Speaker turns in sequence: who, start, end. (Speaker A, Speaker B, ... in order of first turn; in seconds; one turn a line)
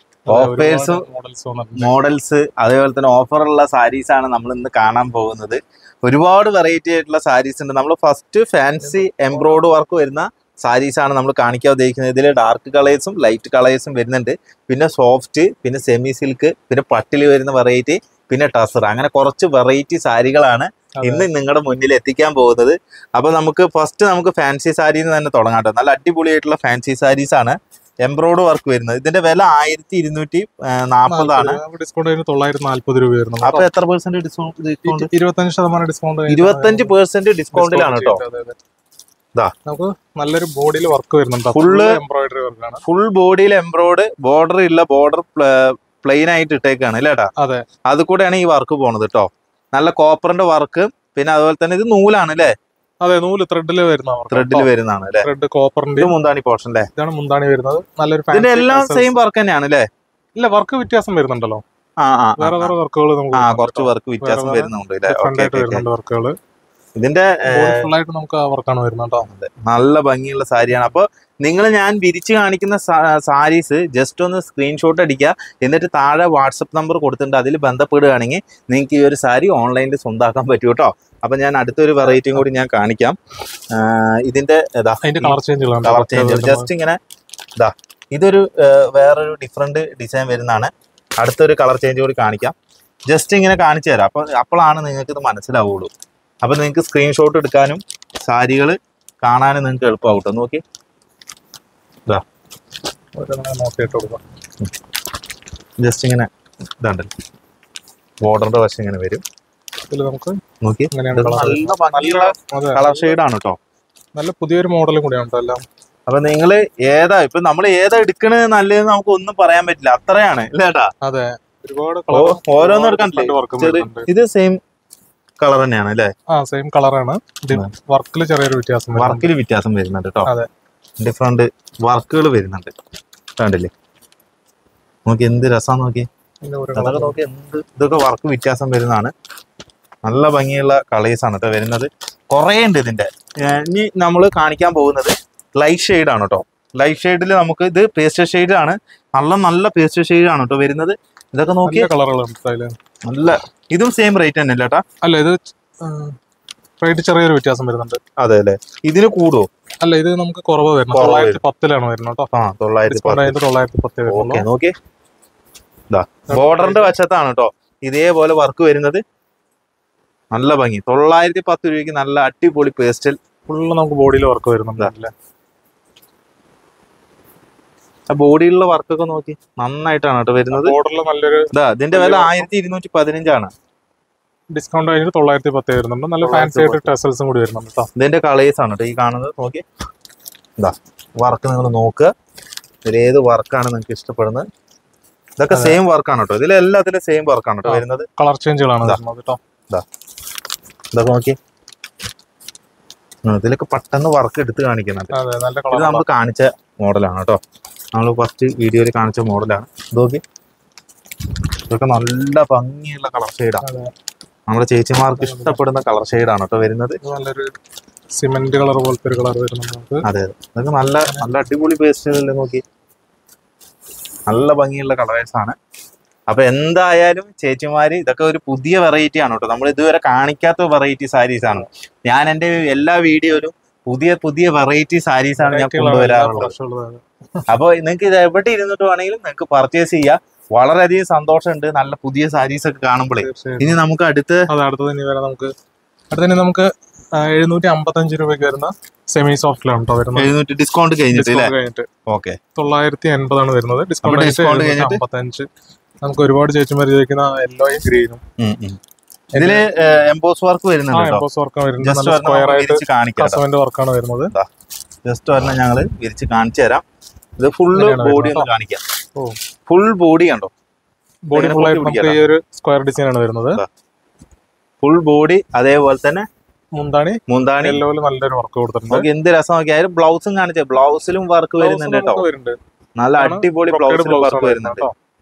Speaker A: 0.3-1.9
Speaker B: 0.3-1.1
Speaker B: 1.8-31.6
Speaker A: 8.8-9.7
Speaker A: 21.0-21.3
Speaker A: 31.1-33.7
Speaker B: 33.4-35.1
Speaker A: 34.9-36.9
Speaker B: 36.3-38.2
Speaker A: 37.5-38.6
Speaker A: 39.7-42.8
Speaker B: 41.5-42.0
Speaker B: 42.9-47.3
Speaker A: 47.4-47.6
Speaker B: 47.9-52.5
Speaker A: 53.0-54.7
Speaker B: 54.3-55.3
Speaker A: 55.2-56.1
Speaker B: 56.0-56.9
Speaker A: 57.0-59.1
Speaker B: 58.3-59.9
Speaker A: 60.4-61.6
Speaker B: 62.0-62.7
Speaker A: 62.4-66.4
Speaker B: 63.3-65.8
Speaker B: 67.0-67.9
Speaker A: 67.5-69.3
Speaker B: 69.3-83.2
Speaker A: 82.0-82.4
Speaker B: 83.7-87.0
Speaker A: 85.0-86.7
Speaker B: 87.6-92.5
Speaker B: 93.1-95.9
Speaker B: 96.4-100.6
Speaker A: 103.2-104.2
Speaker B: 105.8-106.3
Speaker B: 106.8-107.1
Speaker B: 108.2-109.2
Speaker A: 109.9-110.4
Speaker B: 110.6-113.6
Speaker A: 110.9-113.2
Speaker A: 114.2-115.6
Speaker B: 116.1-120.9
Speaker A: 121.0-124.1
Speaker B: 122.1-124.6
Speaker B: 125.4-126.1
Speaker A: 126.3-129.3
Speaker B: 129.0-130.3
Speaker B: 131.0-132.7
Speaker B: 133.4-133.7
Speaker B: 135.1-136.1
Speaker A: 136.4-137.2
Speaker B: 136.8-139.1
Speaker B: 140.1-151.9
Speaker A: 151.7-152.8
Speaker B: 153.1-154.8
Speaker A: 155.0-156.2
Speaker A: 156.8-158.0
Speaker B: 158.2-159.5
Speaker A: 159.8-162.3
Speaker B: 160.9-161.4
Speaker B: 162.3-163.4
Speaker A: 162.9-164.5
Speaker B: 164.1-164.7
Speaker B: 165.9-169.0
Speaker A: 166.3-166.9
Speaker B: 170.3-173.2
Speaker A: 173.5-175.1
Speaker B: 178.1-180.8
Speaker A: 180.5-182.5
Speaker B: 181.5-183.5
Speaker A: 184.5-187.9
Speaker B: 186.2-186.9
Speaker B: 188.0-189.6
Speaker B: 190.6-192.1
Speaker B: 192.8-194.4
Speaker B: 195.4-198.1
Speaker A: 195.5-195.8
Speaker A: 197.7-199.4
Speaker B: 200.9-201.4
Speaker B: 203.3-205.2
Speaker A: 205.1-206.1
Speaker B: 205.7-207.4
Speaker B: 207.9-210.2
Speaker B: 211.7-213.7
Speaker A: 213.6-213.9
Speaker B: 214.5-217.0
Speaker A: 215.2-215.6
Speaker A: 217.0-217.5
Speaker A: 218.1-220.1
Speaker B: 220.0-222.6
Speaker B: 224.3-225.6
Speaker B: 226.3-236.5
Speaker A: 231.4-231.7
Speaker A: 235.4-237.4
Speaker B: 237.5-244.5
Speaker A: 243.2-243.8
Speaker A: 244.5-245.5
Speaker A: 246.1-250.3
Speaker B: 250.2-251.5
Speaker A: 251.1-251.9
Speaker B: 252.1-252.4
Speaker A: 252.6-255.5
Speaker B: 254.0-255.0
Speaker A: 256.0-258.2
Speaker B: 258.4-258.8
Speaker A: 259.3-259.7
Speaker B: 259.4-261.2
Speaker A: 260.9-264.3
Speaker B: 261.8-263.4
Speaker B: 265.1-266.8
Speaker B: 267.4-268.8
Speaker A: 267.7-268.5
Speaker B: 269.7-270.5
Speaker A: 271.3-273.6
Speaker B: 271.3-272.2
Speaker B: 274.8-276.3
Speaker A: 276.8-279.1
Speaker B: 277.3-277.8
Speaker B: 278.9-282.2
Speaker A: 281.6-282.6
Speaker B: 283.0-284.9
Speaker A: 283.2-284.9